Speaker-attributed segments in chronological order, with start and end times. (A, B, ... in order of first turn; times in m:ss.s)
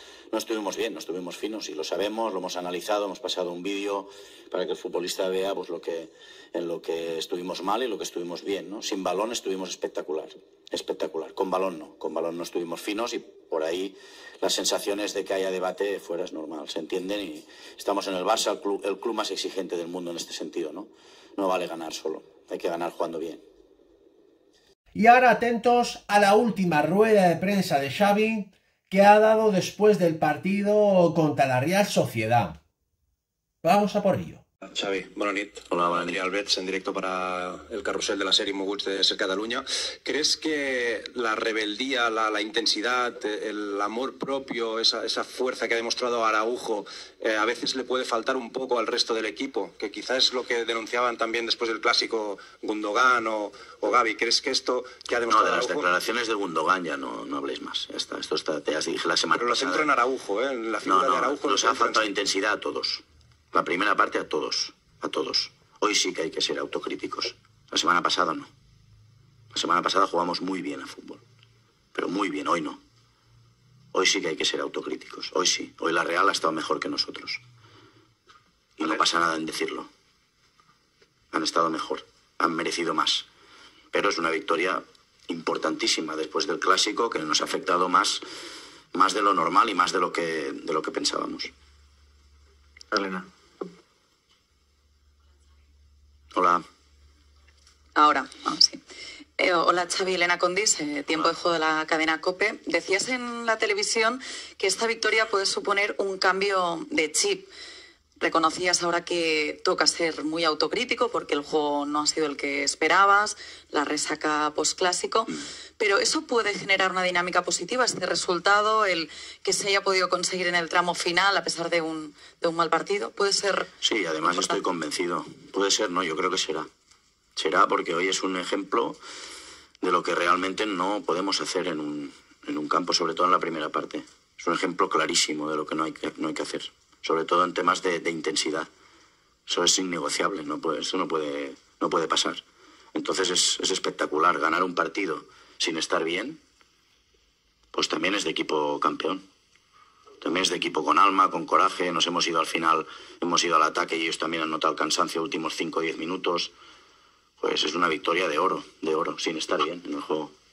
0:00.3-0:23.4 A
0:24.9-0:32.6 B
0:33.6-0:34.4 B
0:34.7-0:55.9 C
0:35.7-0:36.1 A
0:55.3-0:59.9 A
0:59.4-1:02.1 C
1:00.8-1:08.5 A
1:09.5-1:11.2 A
1:11.9-1:12.8 A
1:13.9-1:17.4 A
1:18.8-1:19.9 A
1:21.3-1:23.3 A
1:23.9-1:28.2 A
1:28.9-1:31.5 A
1:36.3-1:36.6 A
1:38.0-1:38.8 D
1:39.4-1:47.5 D
1:48.2-2:03.7 D
2:03.8-2:06.7 A
2:04.2-2:04.6 D
2:07.4-2:09.0 A
2:09.8-2:18.7 A
2:19.5-2:22.4 A
2:22.9-2:26.4 A
2:27.7-2:29.2 A
2:30.2-2:36.5 A
2:37.4-2:40.3 A